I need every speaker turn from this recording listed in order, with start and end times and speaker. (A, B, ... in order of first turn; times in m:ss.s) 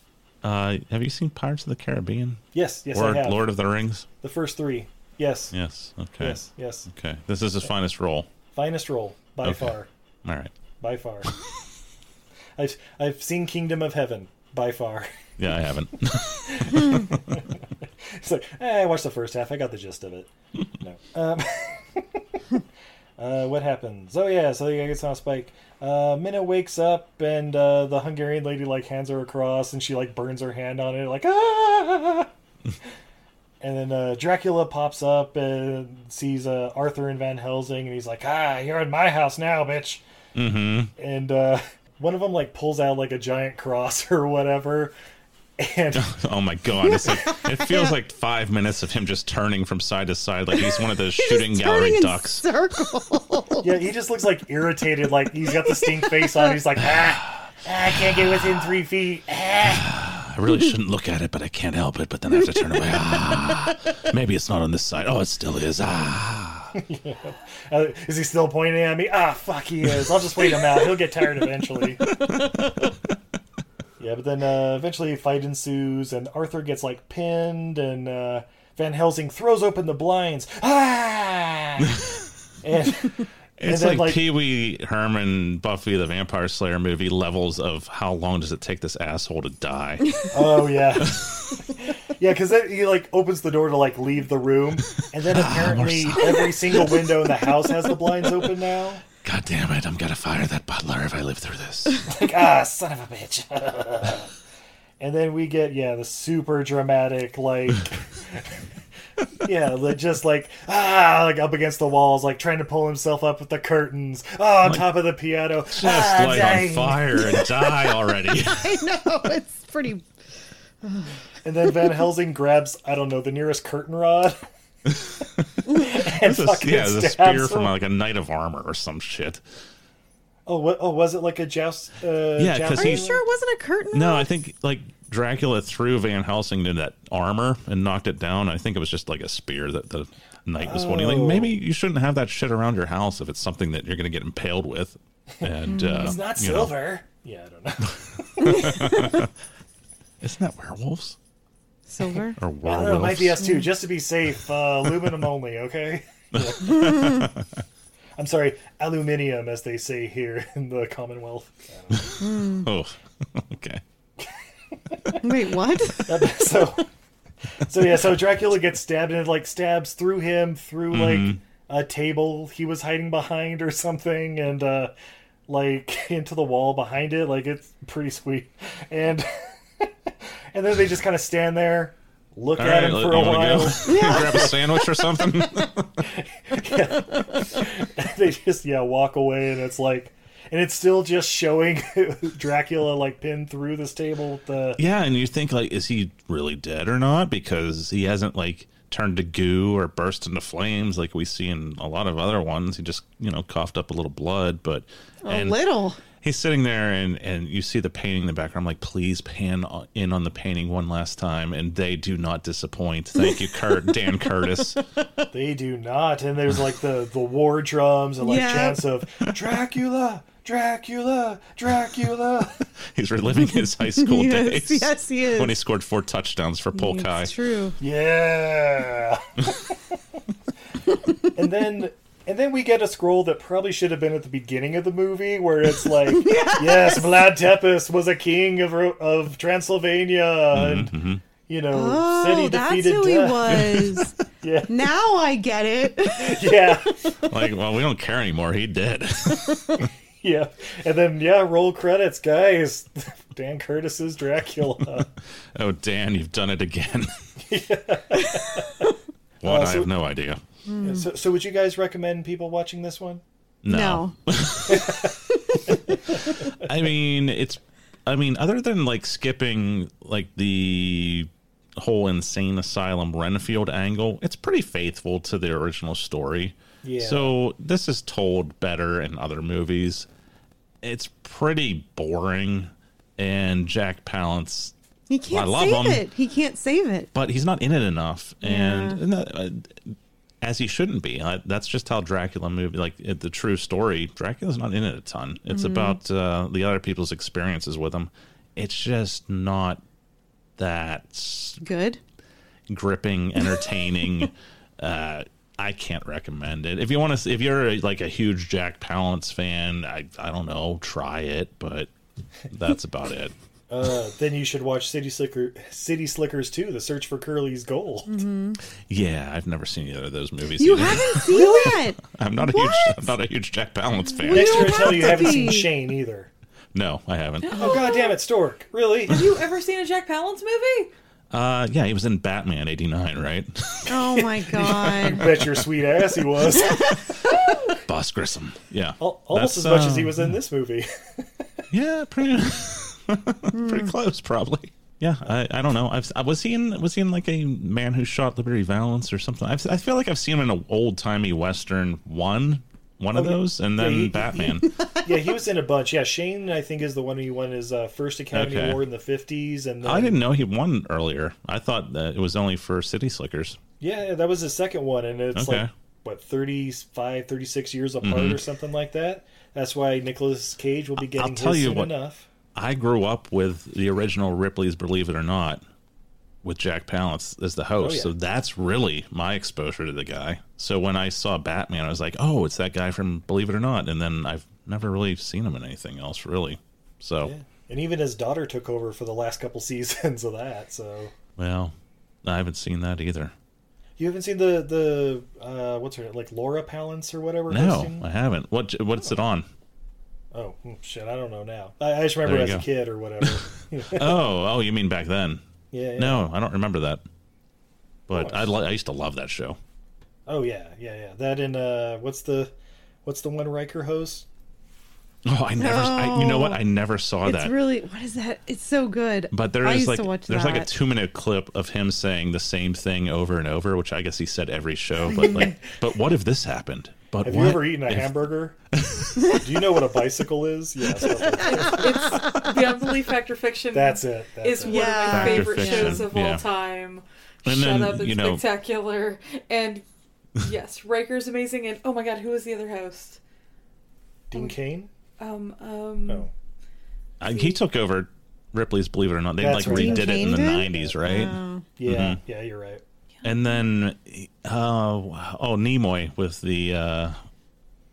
0:00.4-0:04.1 A
0:02.5-0:03.4 B
0:04.2-0:05.5 B
0:05.5-0:08.3 A
0:06.2-0:06.9 B
0:08.5-0:09.9 B
0:10.2-0:10.5 A
0:10.8-0:11.3 B
0:12.6-0:15.1 B
0:15.4-0:17.3 A
0:16.4-0:22.4 B
0:23.2-0:32.3 B
0:33.6-0:40.0 B
0:40.4-0:40.9 A
0:41.0-0:44.9 B
0:45.6-0:46.1 B
0:45.9-0:52.4 A
0:46.8-0:47.9 C
0:50.6-0:53.7 C
0:53.6-0:59.8 B
0:55.5-0:56.6 C
0:59.6-1:06.8 A
1:02.4-1:03.5 C
1:06.8-1:12.0 B
1:14.0-1:21.9 B
1:22.6-1:24.2 B
1:23.6-1:30.3 A
1:30.3-1:31.2 B
1:31.0-1:31.6 A
1:32.1-1:39.0 B
1:35.0-1:37.1 A
1:39.2-1:42.1 A
1:42.1-1:44.3 B
1:45.0-1:48.6 B
1:49.4-1:57.3 B
1:54.6-1:55.1 A
1:55.7-1:58.8 A
1:58.3-2:00.1 C
2:00.8-2:01.2 C
2:01.4-2:04.4 B
2:05.8-2:07.7 B
2:06.1-2:09.4 A
2:10.5-2:13.2 B
2:12.4-2:13.1 A
2:12.7-2:14.3 C
2:13.9-2:26.8 A
2:20.6-2:21.6 B
2:25.4-2:28.7 B
2:25.7-2:26.2 C
2:28.4-2:29.3 A
2:28.4-2:29.2 C
2:30.2-2:31.2 A
2:31.9-2:32.4 C
2:32.4-2:33.5 A
2:32.6-2:36.9 B
2:36.3-2:37.4 A
2:36.7-2:37.3 C
2:38.2-2:42.1 B
2:41.9-2:43.8 A
2:42.2-2:42.7 C
2:44.9-2:45.2 B
2:45.2-2:46.5 C
2:46.1-2:46.9 B
2:47.7-2:54.9 B
2:50.9-2:51.4 A
2:55.5-2:59.9 B
3:00.5-3:04.6 B
3:02.6-3:06.0 A
3:03.9-3:04.9 C
3:06.0-3:14.8 B
3:14.8-3:25.6 A
3:25.2-3:26.0 C
3:26.2-3:34.8 A
3:33.2-3:33.4 C
3:35.3-3:42.6 B
3:38.2-3:38.8 C
3:42.9-3:47.4 A
3:43.5-3:45.6 C
3:46.7-3:47.8 C
3:47.8-3:49.4 B
3:51.4-4:00.9 B
3:56.0-3:57.3 C
4:00.5-4:01.2 A
4:01.5-4:03.7 B
4:01.7-4:04.2 C
4:04.4-4:04.8 B
4:04.7-4:06.8 C
4:06.2-4:07.0 B
4:07.3-4:09.8 A
4:10.2-4:15.1 B
4:15.6-4:17.1 A
4:17.4-4:18.9 B
4:19.4-4:20.4 A
4:19.4-4:19.9 B
4:20.7-4:21.1 C
4:20.8-4:23.2 B
4:23.6-4:25.0 A
4:23.7-4:24.2 C
4:24.7-4:25.1 B
4:26.6-4:40.1 A
4:36.8-4:37.4 B
4:40.8-4:44.7 A
4:45.1-4:47.1 C
4:45.3-4:46.0 A
4:47.1-4:59.8 A
4:48.4-4:49.0 C
4:55.5-4:56.0 C
5:00.6-5:01.6 A
5:01.6-5:02.0 C
5:02.7-5:11.9 A
5:12.5-5:13.3 A
5:13.7-5:18.2 B
5:18.1-5:18.6 C
5:18.9-5:25.1 A
5:20.6-5:23.1 C
5:21.3-5:21.7 B
5:24.1-5:25.7 C
5:24.3-5:26.3 B
5:26.7-5:27.6 A
5:27.5-5:28.0 D
5:27.6-5:29.2 B
5:29.1-5:30.9 D
5:31.3-5:35.1 A
5:33.9-5:35.3 C
5:34.6-5:37.0 B
5:37.8-5:40.3 A
5:39.0-5:41.6 B
5:41.7-5:54.7 A
5:43.5-5:43.9 C
5:53.1-6:00.2 B
5:58.3-5:58.8 A
5:59.8-6:03.6 A
6:03.8-6:12.3 B
6:05.4-6:05.7 A
6:08.0-6:08.4 A
6:11.0-6:11.9 A
6:12.6-6:15.6 A
6:16.4-6:27.3 A
6:17.8-6:18.1 B
6:27.2-6:31.1 B
6:31.4-6:31.7 A
6:32.2-6:33.3 A
6:34.0-6:38.0 B
6:37.5-6:39.5 A
6:40.3-6:44.2 B
6:42.2-6:42.7 A
6:43.2-6:45.4 A
6:45.7-6:46.2 B
6:46.0-6:47.0 A
6:48.1-6:49.6 A
6:48.1-6:48.5 B
6:50.3-6:52.5 B
6:53.0-6:54.3 B
6:55.2-6:57.6 A
6:55.6-6:56.6 C
6:57.2-7:00.7 C
6:59.3-7:08.2 A
7:05.1-7:05.5 C
7:07.2-7:08.6 B
7:08.7-7:09.2 A
7:09.4-7:12.1 B
7:11.2-7:12.5 C
7:11.4-7:19.8 D
7:13.7-7:15.0 B
7:14.6-7:16.1 C
7:14.9-7:16.5 A
7:17.4-7:18.4 A
7:20.4-7:23.2 D
7:24.3-7:24.9 B
7:25.2-7:26.3 D
7:27.2-7:32.2 A
7:29.4-7:30.9 B
7:29.6-7:31.7 C
7:31.8-7:32.8 B
7:33.2-7:33.6 D
7:33.2-7:37.2 A